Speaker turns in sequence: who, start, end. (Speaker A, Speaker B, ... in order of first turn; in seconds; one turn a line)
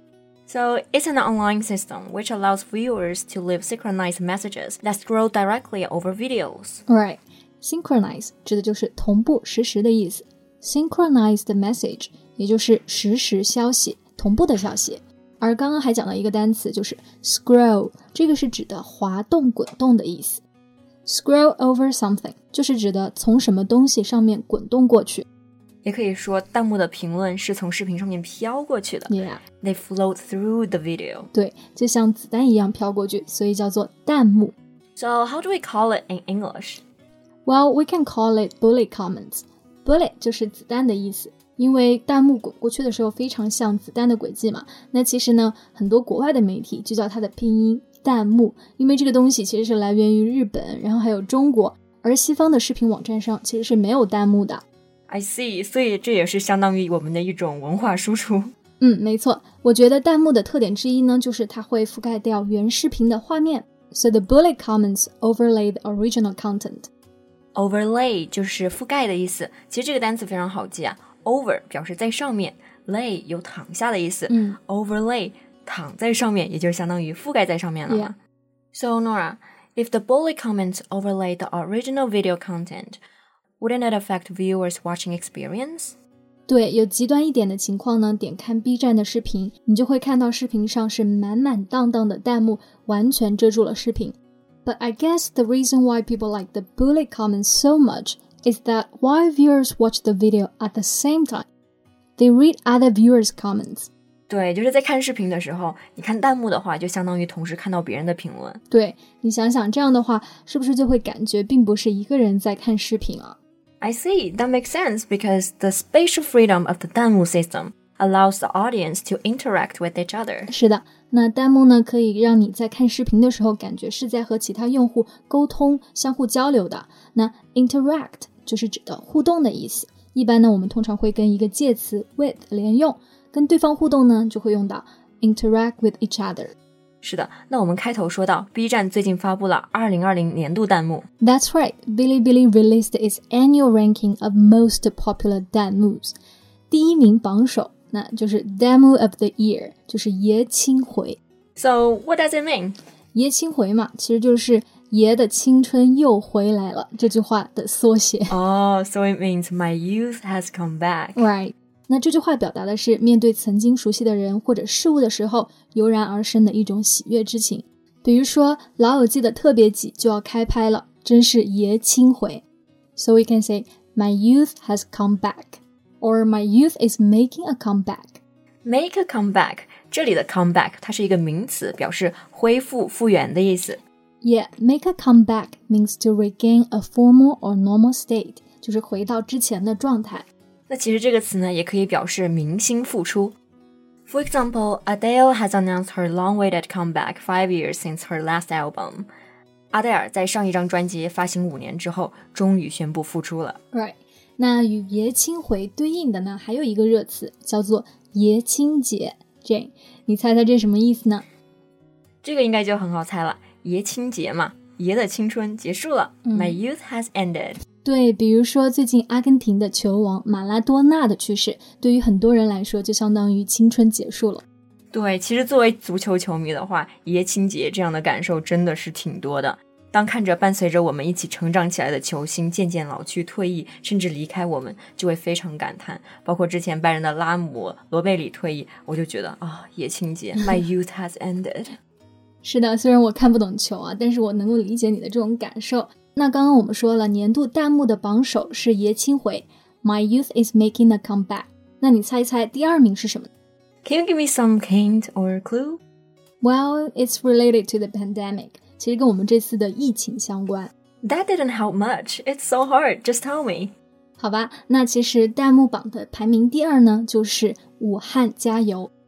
Speaker A: 0.5-6.8
Speaker B: 6.9-20.4
Speaker B: 21.1-25.2
Speaker A: 25.8-31.3
Speaker B: 29.1-29.4
Speaker B: 31.3-34.5
Speaker A: 35.0-36.8
Speaker B: 37.4-54.6
Speaker A: 55.1-58.5
Speaker B: 58.8-66.9
Speaker A: 67.5-78.2
Speaker B: 74.3-74.6
Speaker B: 77.9-78.1
Speaker A: 78.7-83.0
Speaker A: 83.6-86.0
Speaker B: 86.5-101.5
Speaker B: 102.2-103.9
Speaker A: 104.3-108.6
Speaker B: 108.7-113.4
Speaker A: 113.8-120.5
Speaker B: 120.5-136.5
Speaker A: 137.0-141.1
Speaker B: 141.2-146.2
Speaker B: 146.7-151.2
Speaker A: 151.6-152.8
Speaker B: 153.1-158.3
Speaker A: 158.3-161.2
Speaker B: 161.2-172.4
Speaker B: 172.9-178.2
Speaker A: 178.6-183.8
Speaker B: 184.2-190.3
Speaker A: 190.7-193.3
Speaker A: 194.1-199.1
Speaker A: 199.7-203.6
Speaker B: 203.7-211.2
Speaker A: 212.2-217.6
Speaker B: 216.2-216.6
Speaker B: 217.8-224.4
Speaker A: 224.9-241.8
Speaker B: 242.4-253.3
Speaker A: 253.8-255.8
Speaker B: 256.4-260.7
Speaker A: 261.0-263.7
Speaker B: 264.2-268.9